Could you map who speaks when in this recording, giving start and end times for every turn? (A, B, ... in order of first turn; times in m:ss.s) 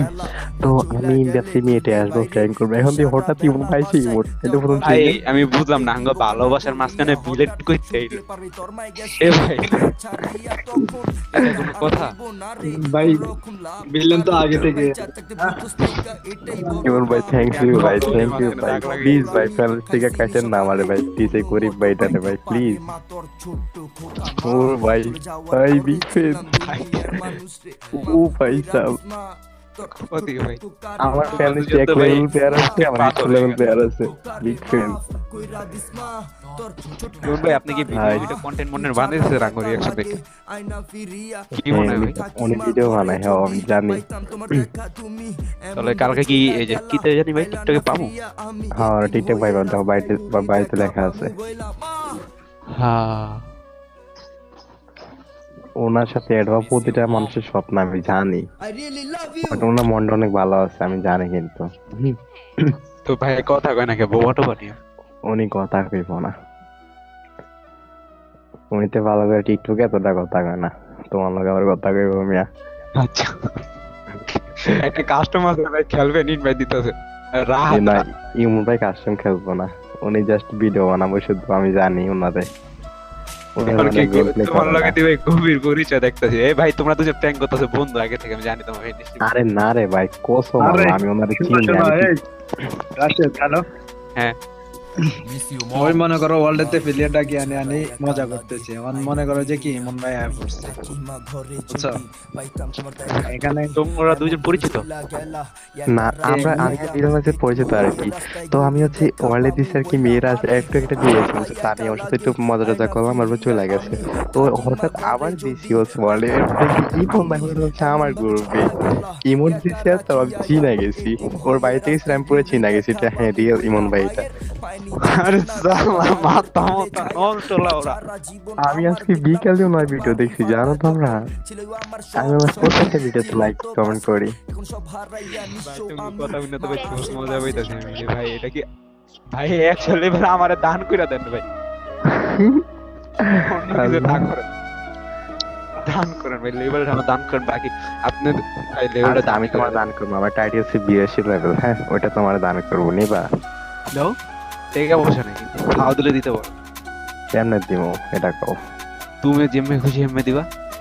0:00.6-0:05.1 A
0:04.8-0:08.2 B
0:09.1-0:09.8 B
0:11.3-0:12.2 B
0:12.7-0:13.3 C
0:13.9-0:15.6 C
0:16.5-0:16.8 C
0:16.8-0:22.8 A
0:17.4-0:19.5 B
0:24.4-0:26.5 A
0:26.6-0:26.9 B
0:27.9-0:29.0 A
0:30.1-0:30.6 B
0:31.0-0:35.0 A
0:31.2-0:33.6 B
0:37.2-0:40.2 B
0:37.9-0:38.3 A
0:41.6-0:42.2 B
0:41.6-0:44.0 A
0:45.8-0:48.2 B
0:48.8-0:51.3 A
0:52.7-0:53.4 B
0:55.8-0:58.4 A
0:59.4-1:02.1 A
1:03.0-1:04.8 B
1:05.3-1:06.3 A
1:08.7-1:12.4 A
1:13.0-1:13.3 B
1:14.4-1:18.1 B
1:17.7-1:22.4 A
1:23.6-1:25.0 A
1:23.6-1:29.2 B
1:29.2-1:32.1 A
1:30.6-1:32.2 C
1:33.0-1:33.6 C
1:35.7-1:40.9 C
1:41.7-1:42.0 C
1:43.1-1:44.9 B
1:43.2-1:43.8 C
1:45.9-1:58.7 A
1:46.2-1:47.1 C
1:59.3-2:04.3 A
2:05.0-2:08.0 B
2:08.6-2:11.1 A
2:12.2-2:14.3 A
2:15.3-2:18.6 B
2:19.3-2:21.4 B
2:22.1-2:22.6 A
2:23.2-2:24.2 A
2:23.4-2:24.4 B
2:25.8-2:29.8 B
2:29.0-2:33.2 A
2:34.8-2:36.5 B
2:37.4-2:38.6 A
2:39.2-2:40.5 B